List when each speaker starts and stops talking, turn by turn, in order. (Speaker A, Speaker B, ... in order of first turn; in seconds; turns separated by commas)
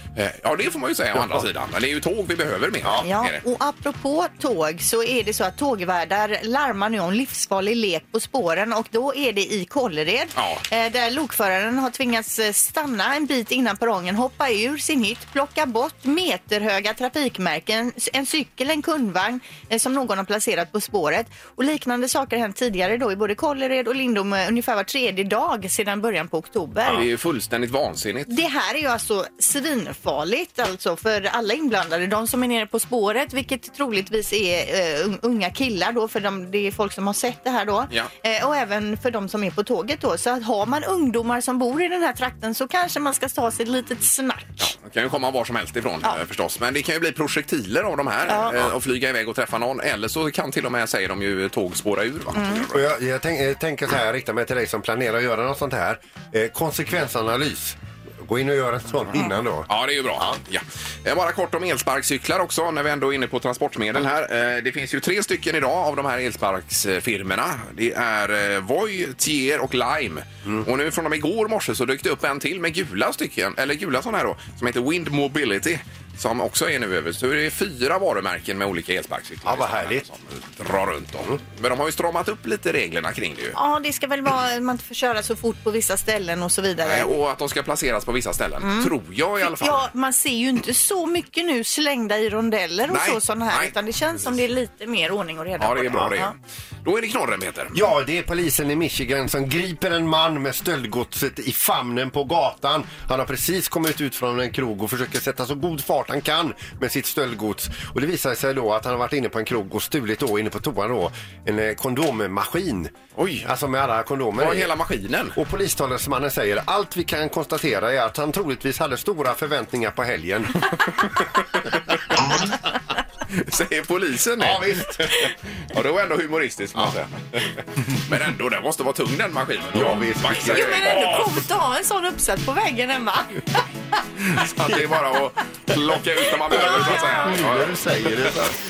Speaker A: 0.1-3.4, Speaker B: 1.1-1.4, Speaker C: 3.0-27.0, Speaker A: 10.3-10.6, Speaker A: 26.9-28.3, Speaker C: 28.3-44.7, Speaker A: 44.6-52.9, Speaker C: 48.3-48.5, Speaker C: 52.3-52.6, Speaker B: 52.7-60.4, Speaker A: 59.7-83.5, Speaker B: 79.4-80.0, Speaker C: 83.5-87.1, Speaker A: 86.8-89.9, Speaker C: 88.6-96.3, Speaker A: 92.9-93.7, Speaker A: 95.6-97.8, Speaker B: 97.7-114.7, Speaker A: 113.2-113.5, Speaker A: 114.4-115.4, Speaker B: 115.3-120.7, Speaker A: 123.3-131.3, Speaker B: 124.4-125.0, Speaker B: 129.7-131.2, Speaker C: 130.4-133.4, Speaker A: 134.3-138.3, Speaker B: 136.5-138.5, Speaker C: 136.5-137.2